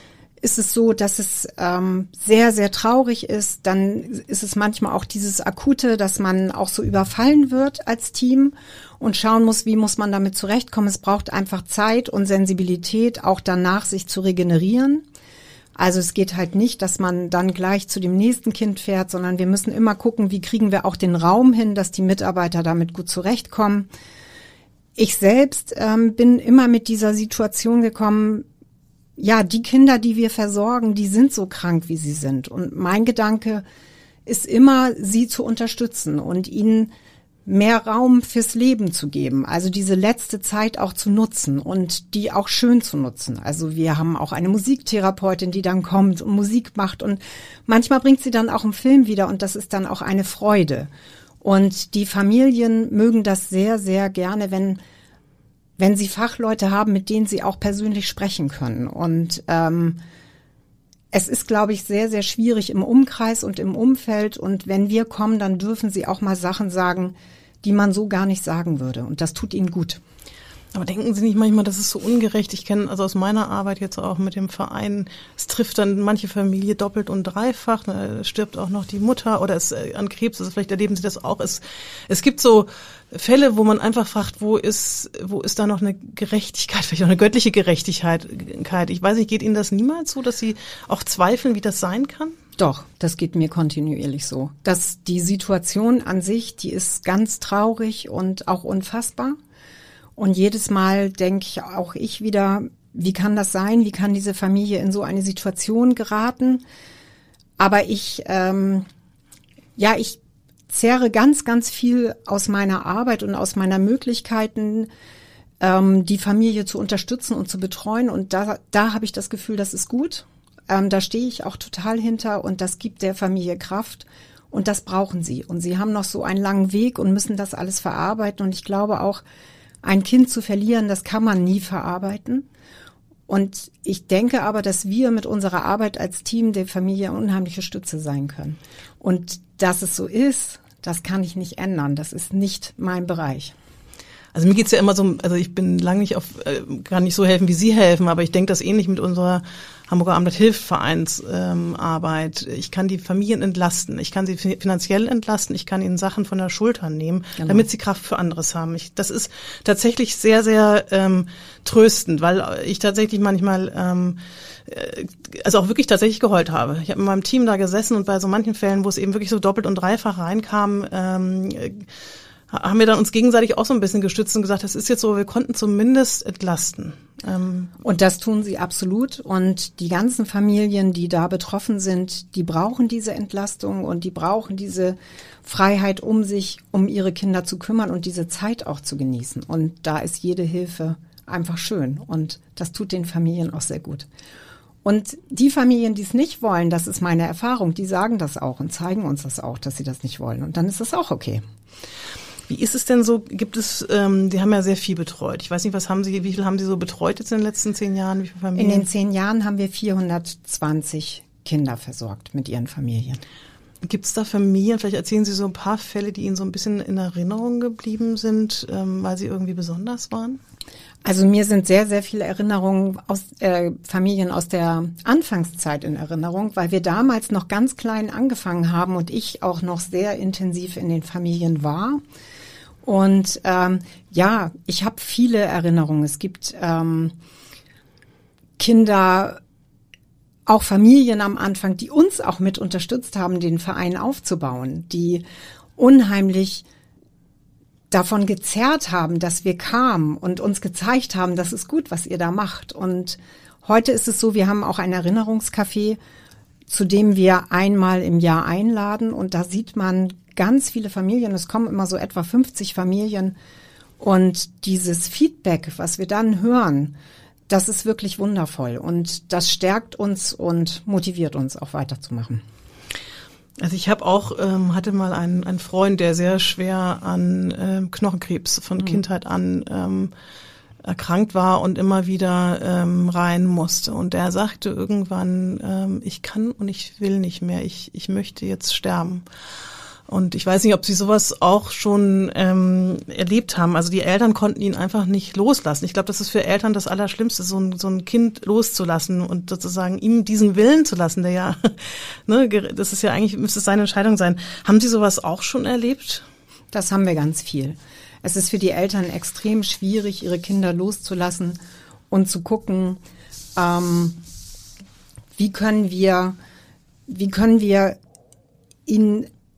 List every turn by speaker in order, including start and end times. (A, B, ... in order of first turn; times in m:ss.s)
0:00.4-0:15.0 A
0:15.8-0:23.9 A
0:25.0-0:28.5 A
0:29.2-0:33.6 A
0:34.3-0:36.9 A
0:37.5-0:50.9 A
0:51.4-0:54.8 A
0:55.8-1:00.0 A
1:01.1-1:10.0 A
1:10.7-1:32.4 B
1:32.6-1:39.4 A
1:40.2-1:46.6 A
1:47.6-1:48.9 A
1:49.8-1:54.9 A
1:55.6-2:09.2 A
2:09.8-2:12.4 A
2:13.3-2:23.5 A
2:24.3-2:51.9 B
2:37.4-2:37.6 A
2:52.5-2:57.7 B
2:57.8-3:14.1 A
3:14.8-3:21.4 A
3:22.5-3:28.9 B
3:28.6-3:33.2 A
3:33.8-3:40.4 B
3:41.0-3:52.0 A
3:52.8-3:57.2 A
3:58.6-3:59.4 A
4:00.5-4:05.2 A
4:05.8-4:06.6 A
4:07.9-4:16.0 A
4:16.7-4:23.4 A
4:24.0-4:27.0 A
4:27.5-4:32.4 A
4:33.6-4:40.1 B
4:40.8-4:49.3 B
4:50.1-5:06.2 B
5:06.7-5:11.6 A
5:12.1-5:13.0 A
5:13.6-5:14.2 A
5:15.4-5:16.4 A
5:17.1-5:18.0 A
5:18.9-5:19.3 A